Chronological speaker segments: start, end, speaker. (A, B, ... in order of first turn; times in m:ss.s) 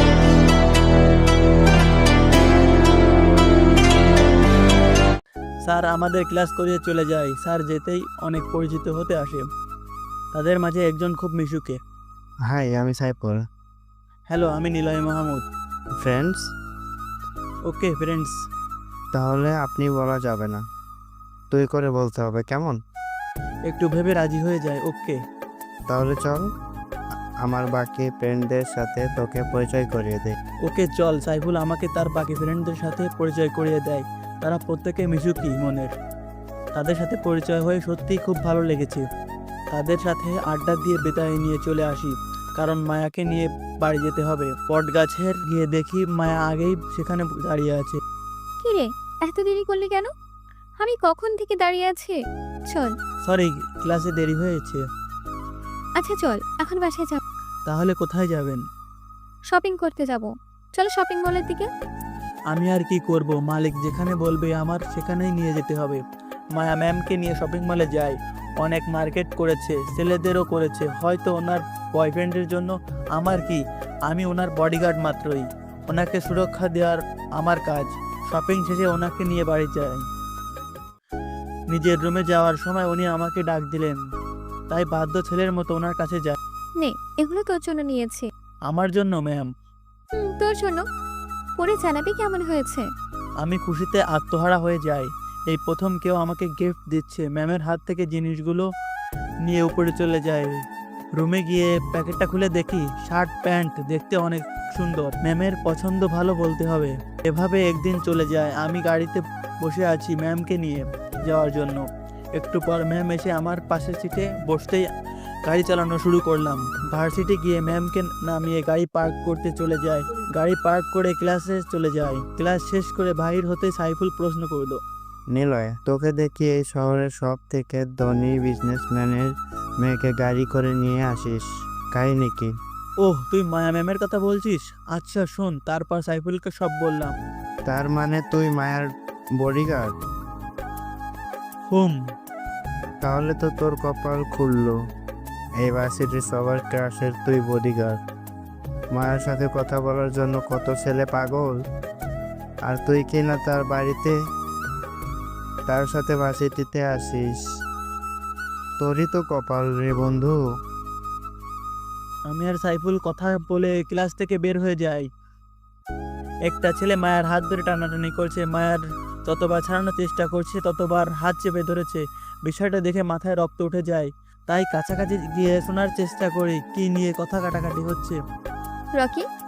0:05.6-0:09.4 A
0:10.3-0:11.8 A
0:12.5-0:13.4 B
0:14.3-0:15.4 A
0:16.0-0:16.5 B
0:17.7-0:18.3 A
0:19.1-0:20.6 B
0:21.5-0:22.8 B
0:23.7-0:25.2 A
0:25.9-0:26.5 B
0:27.4-0:30.4 B
0:30.6-0:35.9 A
0:36.8-0:39.0 A
0:39.7-0:48.0 A
0:48.6-0:50.1 C
0:50.8-0:52.9 C
0:53.3-0:54.8 A
0:56.0-0:57.2 C
0:57.7-0:58.6 A
0:59.5-1:01.7 C
1:02.5-1:06.0 A
1:06.6-1:20.0 A
1:21.7-1:24.0 A
1:24.7-1:26.4 A
1:26.8-1:28.3 C
1:28.7-1:29.5 A
1:30.1-1:30.8 C
1:31.6-1:32.8 C
1:33.4-1:38.7 A
1:39.4-1:40.6 A
1:41.2-1:51.8 A
1:52.4-1:54.9 A
1:55.4-2:04.8 A
2:05.3-2:12.5 B
2:13.0-2:17.1 A
2:17.7-2:18.9 B
2:19.4-2:19.9 B
2:21.7-2:22.0 A
2:23.0-2:24.8 B
2:25.6-2:28.0 B
2:28.9-2:31.5 B
2:32.7-2:34.1 B
2:35.7-2:37.3 B
2:38.8-2:40.4 B
2:42.3-2:45.1 A
2:46.5-2:58.2 A
2:59.0-2:59.2 C